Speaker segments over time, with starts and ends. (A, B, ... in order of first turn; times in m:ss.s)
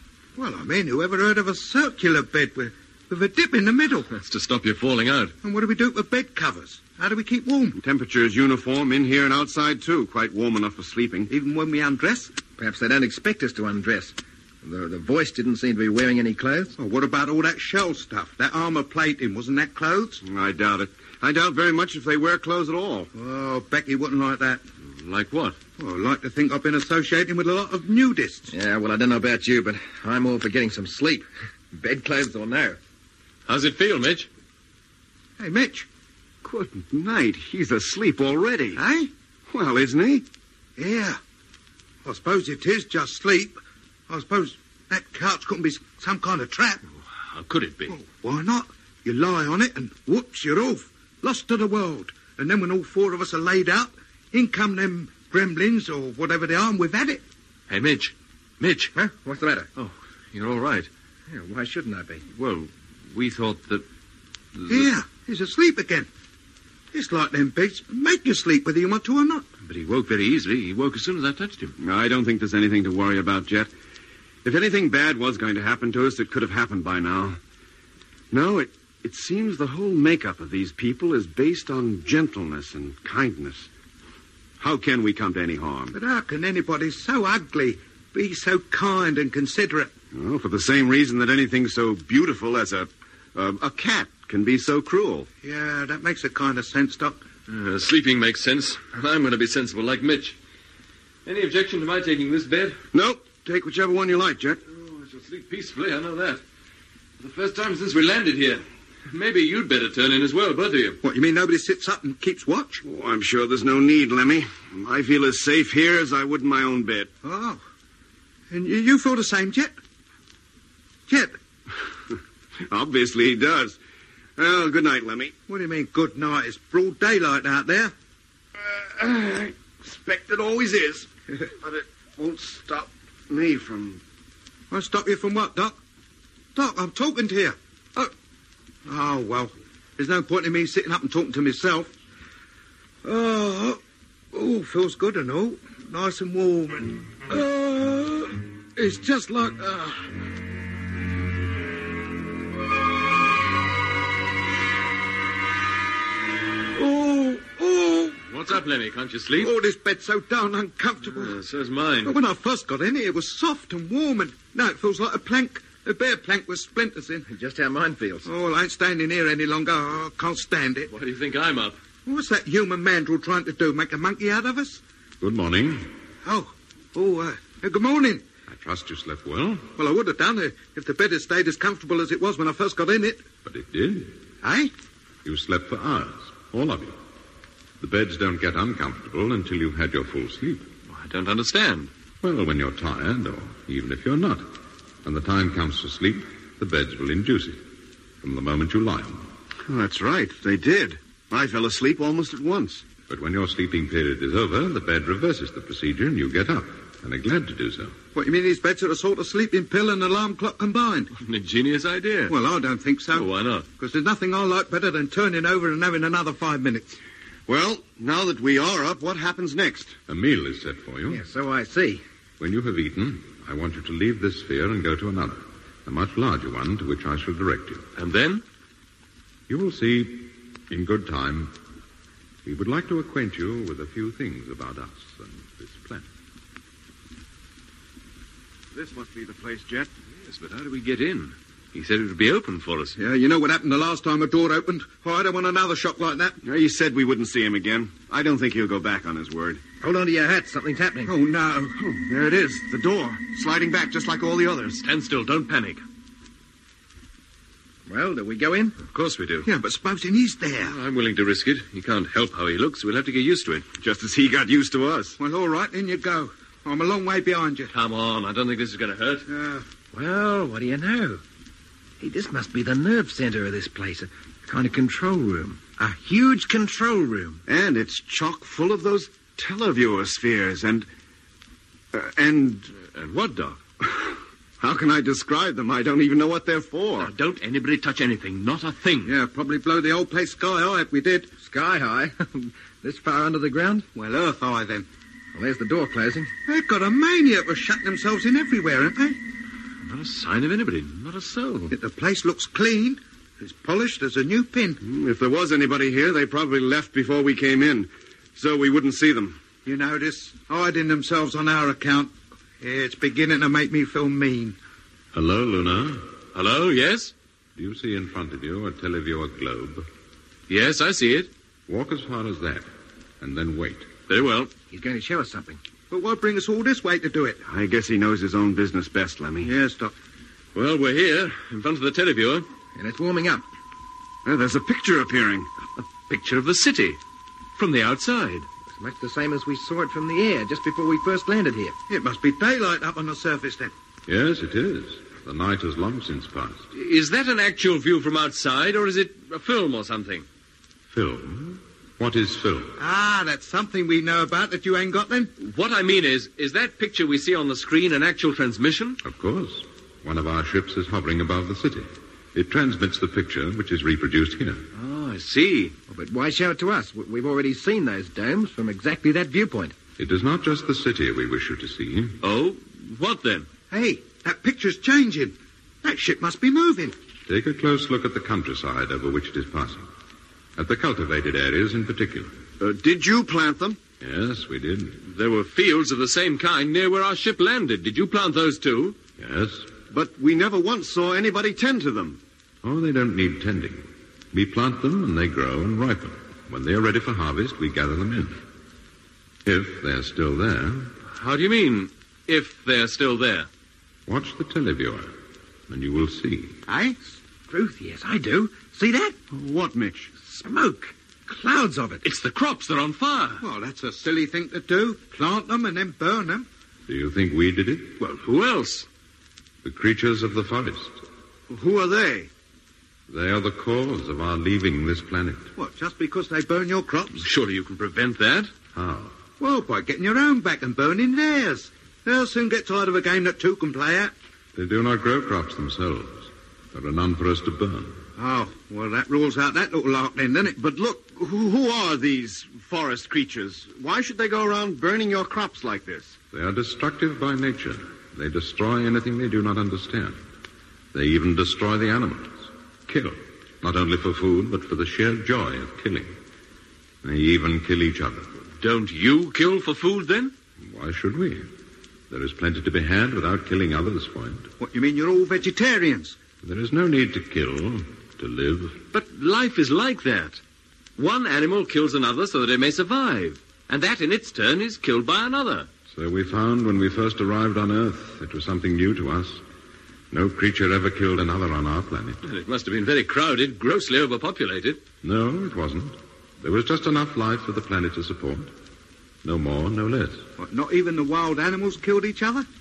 0:00.4-0:04.1 A
0:04.1-0:05.3 B
0:05.4-0:07.8 A
0:07.8-0:11.3 C
0:11.3-0:12.3 A
0:12.6-0:16.7 D
0:16.8-0:20.2 A
0:20.2-0:23.1 C
0:23.1-0:24.6 A
0:25.0-0:25.6 B
0:25.8-0:28.5 A
0:28.5-0:32.8 D
0:33.5-0:34.3 B
0:35.4-0:35.9 A
0:36.4-0:38.8 C
0:38.8-0:39.1 A
0:39.5-0:40.2 C
0:40.8-0:41.2 A
0:42.0-0:46.8 A
0:47.2-0:47.9 B
0:47.9-0:57.2 A
0:57.7-0:58.9 B
0:58.9-0:59.7 D
0:59.8-1:00.9 B
1:01.3-1:02.2 D
1:02.3-1:03.8 B
1:04.5-1:04.9 B
1:04.7-1:06.1 A
1:06.9-1:09.5 A
1:09.6-1:11.7 B
1:11.8-1:13.7 C
1:14.4-1:17.4 C
1:18.3-1:23.7 C
1:24.6-1:25.9 C
1:25.9-1:29.9 A
1:30.1-1:35.3 C
1:35.4-1:37.2 A
1:37.5-1:40.4 B
1:41.2-1:42.8 B
1:42.9-1:44.6 C
1:44.7-1:46.4 B
1:47.2-1:51.0 B
1:51.0-1:52.8 A
1:52.8-1:57.1 C
1:57.2-1:57.6 A
1:58.5-1:59.8 A
2:01.1-2:01.4 A
2:02.7-2:03.8 C
2:04.4-2:05.3 C
2:05.5-2:07.9 A
2:08.6-2:11.1 C
2:11.6-2:14.0 C
2:14.7-2:15.8 A
2:16.5-2:18.1 A
2:18.8-2:21.9 A
2:23.0-2:23.8 A
2:24.3-2:30.0 A
2:36.7-2:38.2 A
2:38.3-2:39.5 B
2:39.4-2:41.4 A
2:41.1-2:42.1 B
2:42.0-2:47.2 A
2:47.3-2:48.3 D
2:48.2-2:50.9 A
2:50.9-2:51.8 B
2:52.0-2:54.8 A
2:55.2-2:55.9 E
2:56.2-2:58.2 A
2:58.5-2:59.7 E
2:59.8-3:03.2 A
3:03.4-3:04.2 E
3:04.4-3:04.7 A
3:05.2-3:07.0 E
3:07.8-3:10.7 E
3:10.9-3:11.9 B
3:12.2-3:14.5 E
3:15.0-3:17.6 E
3:18.2-3:19.3 E
3:19.7-3:22.8 C
3:23.1-3:28.0 E
3:28.1-3:31.1 A
3:31.2-3:32.4 B
3:32.3-3:37.0 A
3:33.1-3:33.6 B
3:37.5-3:40.0 C
3:40.1-3:41.2 E
3:41.1-3:42.0 D
3:42.4-3:47.8 E
3:48.0-3:48.4 B
3:49.5-3:51.5 E
3:52.4-3:56.1 E
3:58.7-3:59.9 C
4:00.2-4:03.0 B
4:03.0-4:06.4 A
4:06.4-4:09.6 C
4:09.8-4:11.1 D
4:11.0-4:11.7 A
4:11.8-4:14.8 C
4:14.8-4:15.8 B
4:17.9-4:18.8 D
4:18.9-4:19.5 B
4:19.4-4:20.8 A
4:20.6-4:23.6 B
4:23.8-4:25.2 C
4:25.2-4:27.7 A
4:27.7-4:29.2 B
4:29.3-4:29.6 A
4:29.9-4:31.2 D
4:32.0-4:37.4 D
4:37.5-4:40.9 C
4:41.9-4:42.7 C
4:42.8-4:43.6 B
4:43.8-4:47.1 C
4:47.0-4:49.1 B
4:49.0-4:51.3 A
4:51.4-4:53.8 D
4:53.9-4:54.8 A
4:55.3-4:56.3 D
4:56.5-4:59.2 A
4:59.8-5:01.7 B
5:01.7-5:04.8 A
5:04.8-5:09.4 C
5:09.6-5:14.6 A
5:15.1-5:16.1 E
5:16.3-5:17.1 B
5:17.6-5:19.9 E
5:20.5-5:21.3 B
5:21.7-5:22.7 E
5:23.2-5:23.9 E
5:24.1-5:24.5 B
5:24.7-5:25.6 D
5:25.9-5:27.4 A
5:27.4-5:29.5 C
5:29.4-5:29.9 A
5:30.5-5:32.5 B
5:32.8-5:33.4 D
5:34.2-5:35.5 C
5:35.8-5:37.0 B
5:37.5-5:38.5 B
5:38.7-5:41.8 D
5:41.9-5:43.7 A
5:44.1-5:46.6 E
5:46.7-5:50.2 B
5:50.9-5:52.8 E
5:52.8-5:55.3 A
5:55.4-5:59.0 B
5:59.0-6:04.6 E
6:04.7-6:05.7 B
6:05.9-6:09.7 D
6:10.0-6:12.2 E
6:12.2-6:13.5 B
6:13.7-6:16.9 A
6:17.3-6:19.9 E
6:20.6-6:22.4 E
6:22.6-6:23.8 C
6:24.0-6:25.0 E
6:25.0-6:29.0 B
6:29.2-6:29.7 E
6:29.9-6:32.2 C
6:32.6-6:38.4 E
6:39.4-6:40.9 E
6:41.1-6:43.5 B
6:44.1-6:45.1 E
6:45.7-6:46.6 E
6:46.7-6:47.0 A
6:47.5-6:49.2 D
6:49.3-6:50.1 C
6:50.2-6:52.0 D
6:52.0-6:53.4 B
6:53.4-6:56.5 A
6:56.9-6:58.0 E
6:58.0-6:58.9 B
6:59.6-7:01.0 E
7:01.5-7:02.3 C
7:03.1-7:05.5 E
7:05.6-7:07.2 A
7:07.2-7:08.5 B
7:08.7-7:09.2 E
7:09.4-7:14.1 A
7:14.5-7:18.0 E
7:18.2-7:20.6 A
7:20.5-7:26.2 C
7:26.3-7:30.2 E
7:30.9-7:36.1 E
7:37.0-7:38.3 E
7:38.6-7:40.3 B
7:40.6-7:41.5 E
7:42.1-7:44.5 E
7:44.6-7:46.2 A
7:46.4-7:48.8 E
7:48.9-7:50.4 B
7:51.0-7:55.7 B
7:55.9-7:59.4 E
8:00.1-8:02.2 E
8:02.2-8:04.8 B
8:05.0-8:08.5 E
8:09.2-8:10.2 E
8:10.4-8:12.4 A